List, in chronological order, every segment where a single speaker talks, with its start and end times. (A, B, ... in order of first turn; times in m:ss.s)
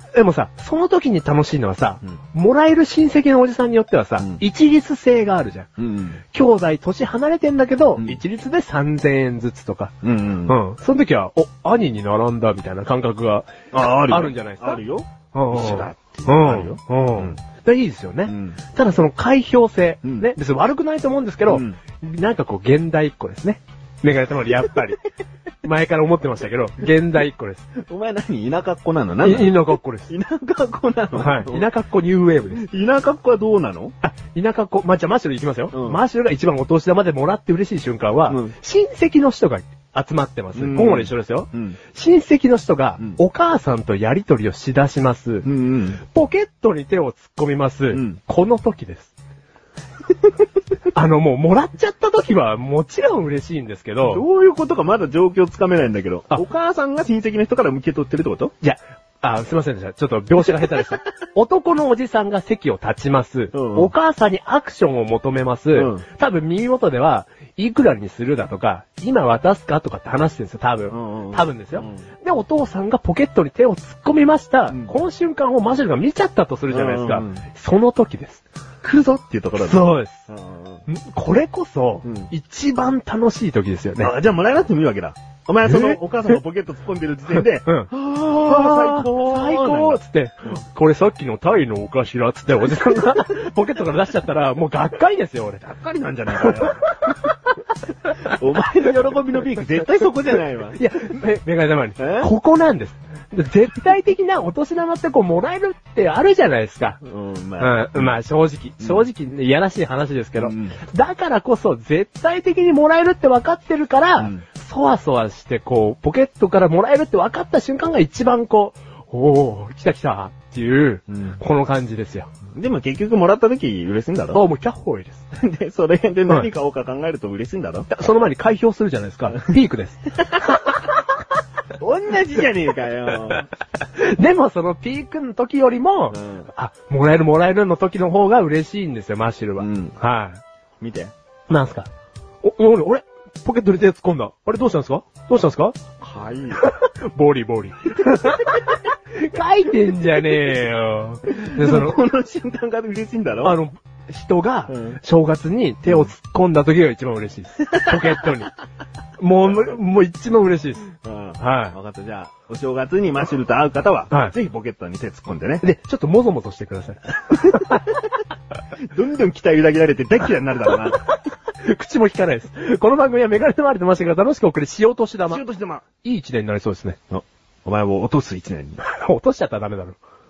0:00.2-0:05.7 A
0:05.8-0:06.2 B
0:06.3-0:09.9 A
0:08.0-0:08.2 B
0:10.0-0:10.6 B
0:10.5-0:14.8 A
0:13.7-0:17.4 B
0:15.3-0:25.0 A
0:18.3-0:18.6 B
0:20.0-0:20.3 B
0:21.5-0:21.8 B
0:25.6-0:27.7 A
0:27.8-0:31.7 B
0:29.2-0:30.1 A
0:31.1-0:32.7 A
0:32.5-0:33.9 B
0:34.0-0:45.5 A
0:35.7-0:36.0 B
0:38.3-0:38.6 B
0:40.6-0:41.8 B
0:45.4-0:46.0 B
0:46.1-0:49.1 A
0:47.9-0:48.2 B
0:50.9-0:54.2 A
0:54.0-0:58.5 B
0:58.6-1:18.4 A
1:03.5-1:03.9 B
1:05.7-1:06.0 B
1:10.9-1:12.0 B
1:16.7-1:17.4 B
1:18.8-1:20.8 B
1:19.6-1:20.3 A
1:20.9-1:24.1 A
1:22.0-1:22.3 B
1:24.0-1:30.0 B
1:25.6-1:26.4 A
1:27.6-1:35.6 A
1:35.6-1:37.0 B
1:36.4-1:37.2 A
1:38.1-1:38.3 A
1:38.2-1:40.8 B
1:40.7-1:47.0 A
1:42.0-1:42.3 B
1:47.0-1:48.2 B
1:47.6-2:02.3 A
1:48.8-1:49.1 B
1:50.4-1:50.8 B
2:01.1-2:01.4 B
2:02.6-2:04.4 B
2:04.3-2:05.2 A
2:05.3-2:07.9 B
2:07.9-2:10.2 A
2:11.8-2:13.5 B
2:13.9-2:20.4 A
2:16.1-2:16.5 B
2:19.6-2:19.9 B
2:20.8-2:21.1 B
2:21.5-2:21.9 A
2:22.4-2:25.8 A
2:26.0-2:26.6 B
2:26.6-2:32.0 A
2:31.3-2:33.6 B
2:33.4-2:38.5 A
2:34.7-2:35.0 B
2:35.9-2:36.1 B
2:37.6-2:38.2 B
2:39.2-2:41.8 A
2:41.0-2:45.6 B
2:44.1-2:44.4 A
2:45.6-2:47.9 A
2:47.4-2:47.9 B
2:48.8-2:51.1 B
2:51.6-2:55.4 A
2:55.2-2:55.9 B
2:56.0-2:57.0 A
2:57.1-2:58.8 B
2:58.8-3:00.0 A